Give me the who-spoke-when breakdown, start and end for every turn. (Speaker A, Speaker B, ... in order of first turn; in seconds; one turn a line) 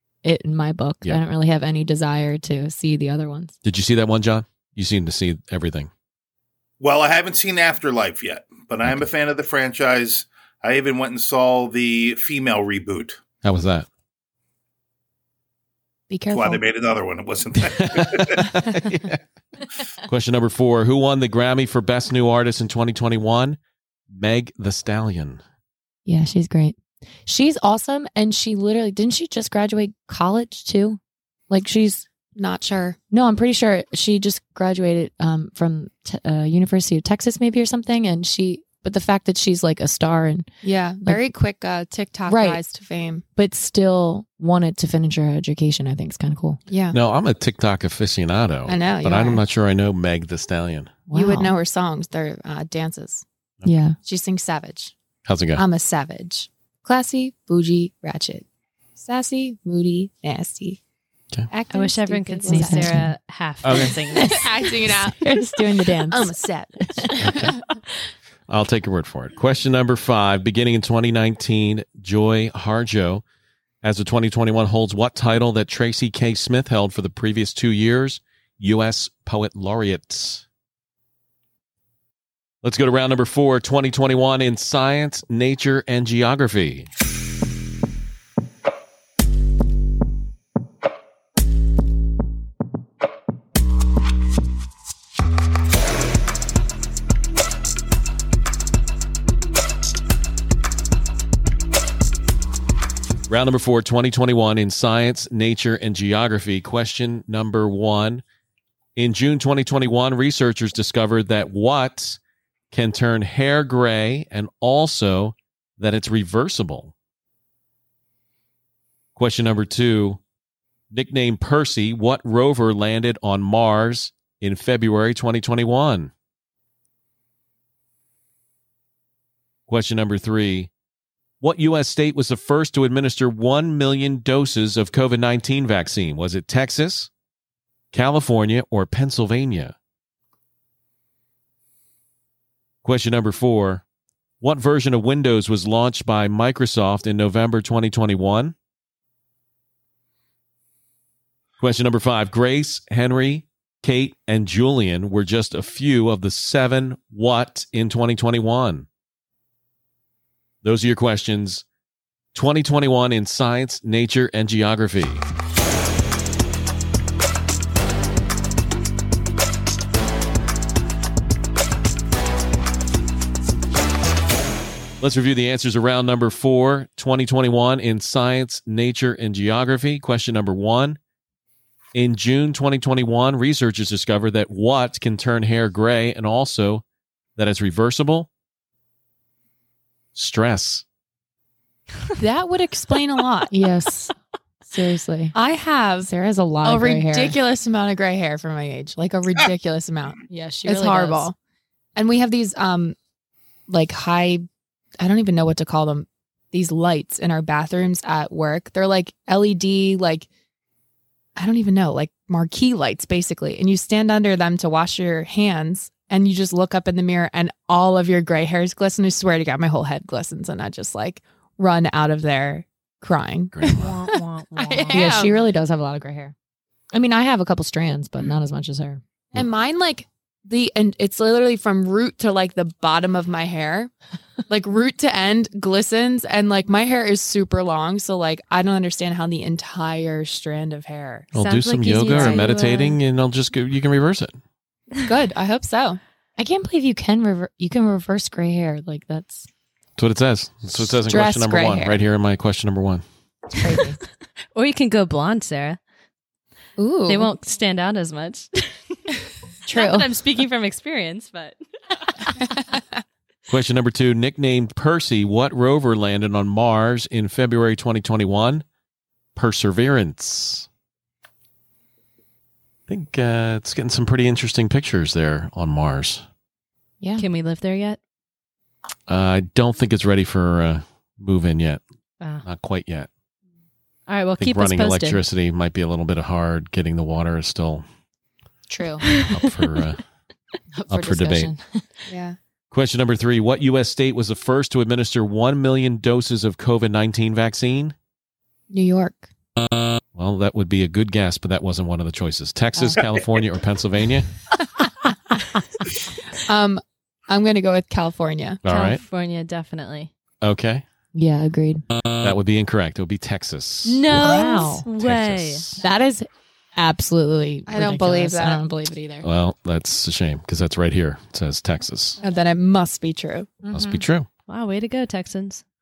Speaker A: 0.2-3.5
Speaker B: 3.6-5.9
Speaker C: 6.8-13.2
Speaker B: 13.4-13.9
Speaker A: 16.1-16.4
Speaker C: 16.3-18.6
Speaker D: 16.3-16.6
Speaker B: 17.8-19.2
Speaker B: 20.0-23.6
Speaker B: 24.1-25.4
Speaker A: 26.1-32.0
Speaker D: 32.3-33.0
Speaker A: 33.1-40.5
Speaker D: 40.6-43.2
Speaker A: 42.3-42.6
Speaker A: 43.4-46.6
Speaker D: 46.7-47.0
Speaker B: 46.9-51.0
Speaker D: 48.6-49.4
Speaker A: 51.1-51.5
Speaker D: 51.1-53.2
Speaker A: 53.6-54.0
Speaker D: 54.0-54.9
Speaker B: 55.2-55.6
Speaker D: 55.5-58.4
Speaker D: 59.0-60.8
Speaker D: 61.5-63.0
Speaker E: 61.7-64.7
Speaker A: 62.5-63.1
Speaker B: 63.6-64.0
Speaker D: 64.1-67.5
Speaker A: 64.9-67.4
Speaker B: 67.2-67.5
Speaker B: 68.5-73.2
Speaker B: 73.8-80.4
Speaker B: 82.6-86.9
Speaker B: 103.3-108.2
Speaker B: 109.0-112.2
Speaker B: 112.7-116.9
Speaker B: 119.2-120.2
Speaker B: 120.9-126.1
Speaker B: 129.7-130.7
Speaker B: 131.4-137.1
Speaker B: 137.9-139.7
Speaker B: 142.8-143.8
Speaker B: 144.4-148.5
Speaker B: 151.6-158.9
Speaker B: 160.6-161.6
Speaker B: 162.3-165.2
Speaker B: 175.0-181.0
Speaker B: 181.9-186.8
Speaker B: 187.3-188.3
Speaker B: 190.1-190.8
Speaker D: 192.2-193.5
Speaker A: 193.5-194.1
Speaker A: 194.7-195.3
Speaker D: 195.3-196.1
Speaker A: 196.0-197.3
Speaker D: 196.6-201.3
Speaker A: 200.3-201.3
Speaker D: 201.9-202.9
Speaker D: 203.7-204.4
Speaker D: 205.0-210.3
Speaker D: 211.3-225.3
Speaker B: 223.5-224.1
Speaker E: 223.7-225.2
Speaker A: 224.9-226.3
Speaker A: 226.9-229.0
Speaker D: 229.3-233.9
Speaker D: 234.5-241.3
Speaker B: 241.3-244.4
Speaker E: 241.3-243.0
Speaker D: 242.1-242.4
Speaker D: 245.0-246.0
Speaker A: 246.4-249.5
Speaker B: 250.0-253.0
Speaker D: 250.9-252.0
Speaker D: 253.6-254.0
Speaker A: 253.6-253.9
Speaker E: 254.5-255.8
Speaker D: 256.8-257.3
Speaker E: 257.1-258.7
Speaker A: 259.7-260.0
Speaker E: 259.7-261.6
Speaker B: 263.5-268.6
Speaker B: 269.3-270.7
Speaker B: 272.9-276.2
Speaker A: 277.0-277.2
Speaker E: 277.2-278.0
Speaker B: 279.1-281.8
Speaker B: 282.4-283.1
Speaker E: 284.1-285.2
Speaker B: 284.4-287.8
Speaker A: 288.7-289.1
Speaker E: 289.1-289.6
Speaker B: 289.2-290.0
Speaker A: 290.7-291.8
Speaker B: 290.9-291.5
Speaker D: 292.1-292.4
Speaker B: 292.7-297.9
Speaker D: 298.7-299.3
Speaker B: 300.1-304.3
Speaker D: 306.4-308.6
Speaker B: 308.6-309.0
Speaker E: 308.6-310.1
Speaker B: 310.4-310.8
Speaker A: 311.1-311.8
Speaker B: 312.2-314.4
Speaker E: 313.8-315.8
Speaker A: 314.1-314.8
Speaker B: 315.0-315.8
Speaker A: 315.8-319.3
Speaker D: 317.7-318.6
Speaker B: 319.2-322.2
Speaker D: 322.2-323.6
Speaker A: 323.6-324.0
Speaker B: 323.7-324.3
Speaker E: 324.5-325.6